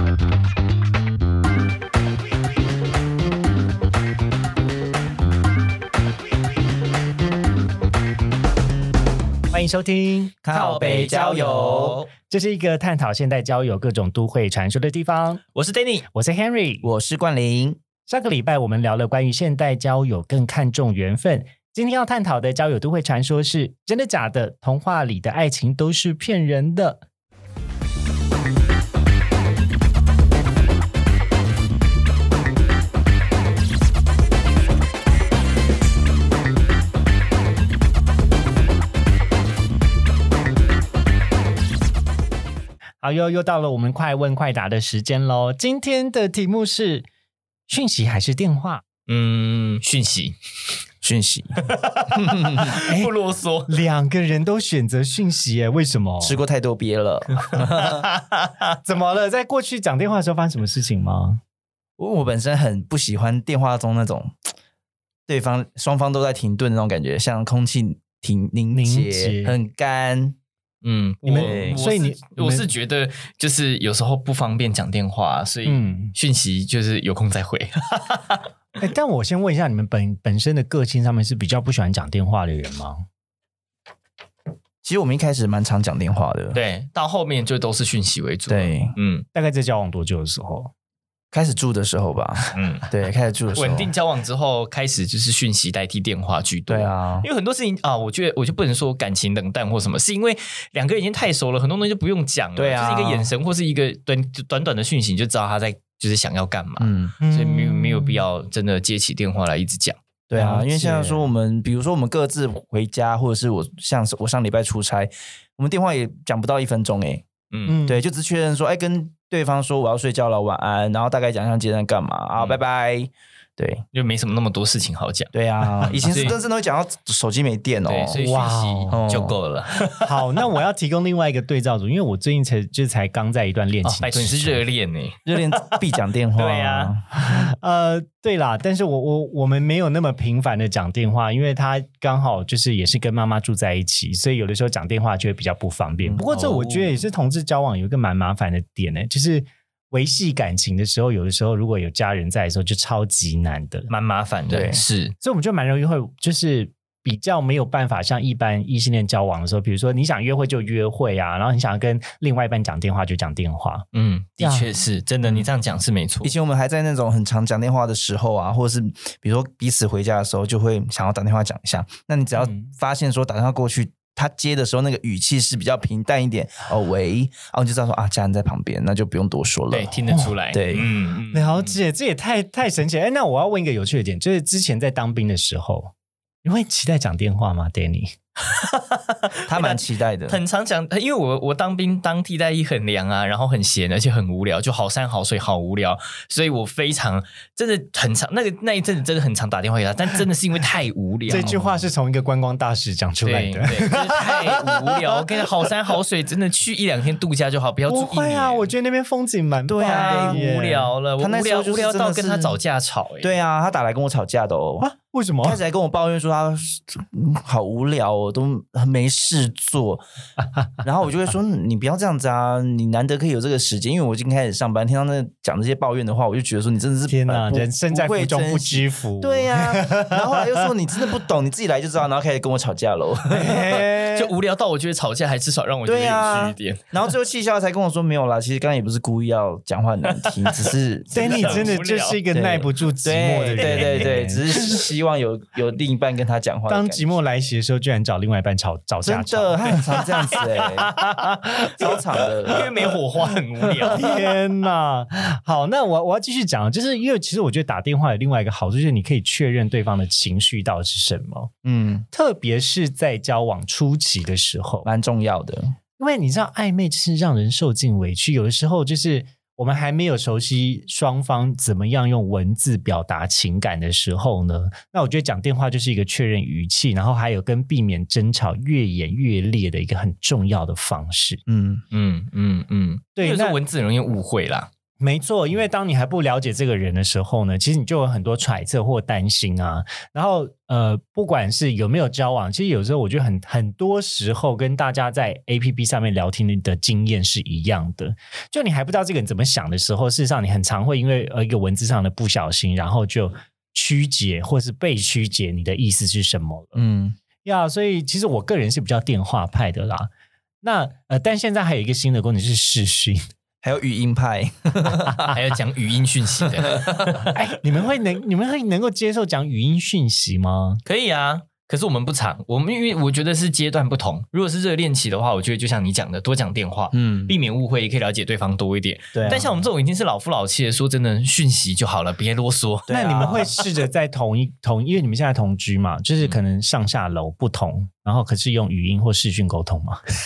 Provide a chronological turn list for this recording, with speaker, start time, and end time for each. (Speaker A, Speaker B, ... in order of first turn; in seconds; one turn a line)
Speaker A: 9.5-10.4
Speaker B: 10.4-12.0
Speaker C: 10.5-12.1
Speaker A: 12.3-15.4
Speaker C: 15.6-16.1
Speaker A: 16.1-16.9
Speaker B: 16.8-17.8
Speaker A: 18.1-27.0
Speaker A: 43.0-47.1
Speaker A: 47.7-48.8
Speaker C: 49.1-50.4
Speaker B: 51.0-52.7
Speaker C: 51.6-53.8
Speaker A: 52.6-53.1
Speaker A: 53.7-56.4
Speaker B: 56.2-58.1
Speaker C: 57.4-58.8
Speaker A: 58.8-61.4
Speaker B: 62.0-64.3
Speaker B: 65.3-70.4
Speaker A: 68.7-69.6
Speaker C: 70.8-78.5
Speaker A: 71.2-72.7
Speaker B: 71.3-71.8
Speaker A: 75.7-76.1
Speaker A: 78.8-83.0
Speaker B: 84.8-86.6
Speaker C: 86.5-89.3
Speaker B: 88.5-88.9
Speaker A: 89.3-90.7
Speaker B: 91.3-93.9
Speaker C: 92.5-92.9
Speaker C: 93.5-110.0
Speaker B: 96.7-97.3
Speaker B: 102.6-103.3
Speaker B: 106.8-107.2
Speaker A: 107.2-108.3
Speaker B: 110.3-117.3
Speaker A: 110.3-111.3
Speaker C: 117.5-117.8
Speaker A: 117.7-118.0
Speaker B: 117.9-123.8
Speaker C: 122.4-122.6
Speaker C: 123.9-126.4
Speaker B: 125.3-128.2
Speaker C: 127.8-130.4
Speaker A: 128.1-129.0
Speaker B: 128.9-129.4
Speaker A: 129.9-134.6
Speaker C: 133.8-135.8
Speaker B: 135.3-137.1
Speaker C: 136.4-136.9
Speaker A: 137.2-153.9
Speaker C: 146.3-147.0
Speaker C: 153.9-155.1
Speaker B: 154.5-154.8
Speaker A: 155.2-163.9
Speaker C: 163.9-166.3
Speaker A: 164.4-164.7
Speaker B: 166.2-180.0
Speaker A: 172.4-172.7
Speaker C: 179.7-181.8
Speaker B: 180.5-180.9
Speaker A: 181.3-185.9
Speaker A: 186.4-188.1
Speaker C: 188.5-201.6
Speaker B: 189.5-190.4
Speaker A: 201.3-205.1
Speaker B: 201.3-201.7
Speaker C: 203.2-208.7
Speaker A: 207.9-210.9
Speaker B: 209.7-210.4
Speaker C: 209.8-213.3
Speaker B: 211.2-212.6
Speaker B: 213.2-214.8
Speaker A: 214.8-215.6
Speaker B: 215.4-220.0
Speaker B: 220.8-233.8
Speaker A: 227.1-230.7
Speaker A: 233.3-234.3
Speaker C: 233.8-237.1
Speaker B: 235.8-241.8
Speaker C: 240.2-242.2
Speaker A: 241.1-244.8
Speaker B: 242.3-247.2
Speaker C: 243.6-244.2
Speaker A: 246.7-252.0
Speaker B: 249.0-250.9
Speaker C: 249.7-250.4
Speaker C: 251.0-254.2
Speaker B: 251.8-252.7
Speaker A: 253.8-261.5
Speaker B: 261.6-262.1
Speaker A: 262.1-264.9
Speaker B: 264.8-265.8
Speaker A: 266.0-281.4
Speaker B: 281.5-281.9
Speaker C: 281.9-284.7
Speaker A: 283.2-283.6
Speaker A: 285.0-306.8
Speaker B: 306.8-307.2
Speaker A: 307.4-310.1
Speaker A: 310.6-313.2
Speaker B: 313.6-315.3
Speaker C: 315.3-317.4
Speaker A: 317.2-320.8
Speaker C: 320.9-332.9
Speaker B: 326.9-327.4
Speaker B: 329.1-329.5
Speaker B: 332.9-333.6
Speaker A: 332.9-340.0